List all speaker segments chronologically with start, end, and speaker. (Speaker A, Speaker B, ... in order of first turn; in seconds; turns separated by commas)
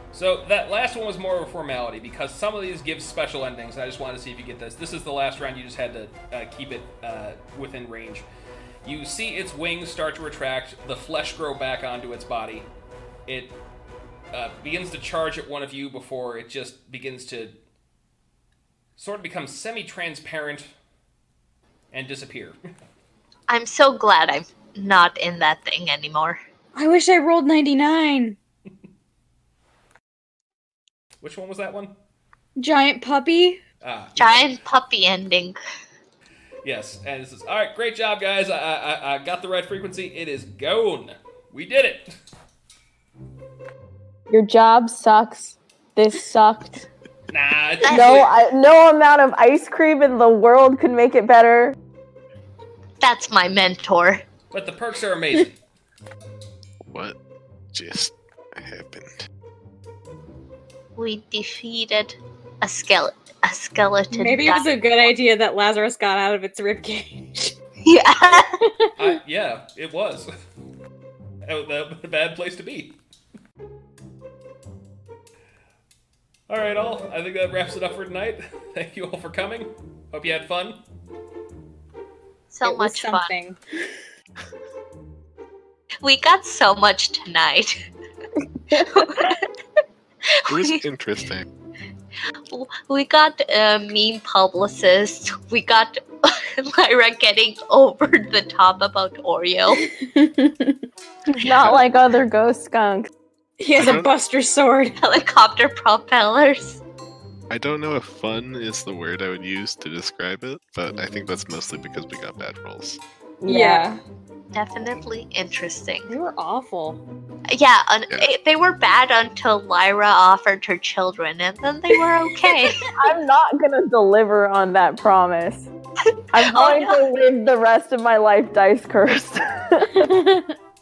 Speaker A: 0.1-8.3, Speaker A: 8.8-12.7, Speaker A: 13.3-13.6, Speaker A: 14.3-17.6, Speaker A: 19.0-20.7, Speaker A: 21.9-22.6, Speaker B: 23.5-26.4, Speaker C: 26.8-28.4, Speaker A: 31.2-32.0, Speaker C: 32.6-33.6, Speaker A: 33.8-34.5, Speaker B: 34.2-35.6, Speaker A: 36.6-42.1, Speaker D: 44.3-46.9, Speaker A: 47.3-48.3, Speaker B: 47.9-48.3, Speaker D: 47.9-51.8, Speaker B: 53.0-54.2, Speaker A: 54.5-55.6, Speaker E: 56.9-57.2, Speaker E: 57.7-59.3, Speaker B: 61.0-65.1, Speaker C: 64.1-67.5, Speaker B: 67.8-68.6, Speaker C: 68.6-68.9, Speaker A: 69.0-70.3, Speaker A: 71.5-73.0, Speaker A: 76.5-80.8, Speaker B: 82.5-83.3, Speaker C: 82.6-83.6, Speaker B: 86.0-87.8, Speaker D: 88.7-89.1, Speaker B: 88.9-89.5, Speaker B: 90.5-90.8, Speaker E: 90.5-91.5, Speaker B: 92.5-99.8, Speaker C: 99.8-100.8, Speaker D: 101.3-103.1, Speaker C: 103.6-105.0, Speaker E: 103.8-104.1, Speaker B: 105.0-106.8, Speaker E: 107.5-113.0, Speaker D: 113.4-113.9, Speaker C: 113.5-114.0, Speaker B: 114.5-116.1, Speaker C: 116.1-117.0, Speaker B: 117.5-122.9, Speaker D: 122.9-125.7, Speaker D: 126.3-130.3, Speaker B: 126.4-127.0, Speaker C: 130.0-130.5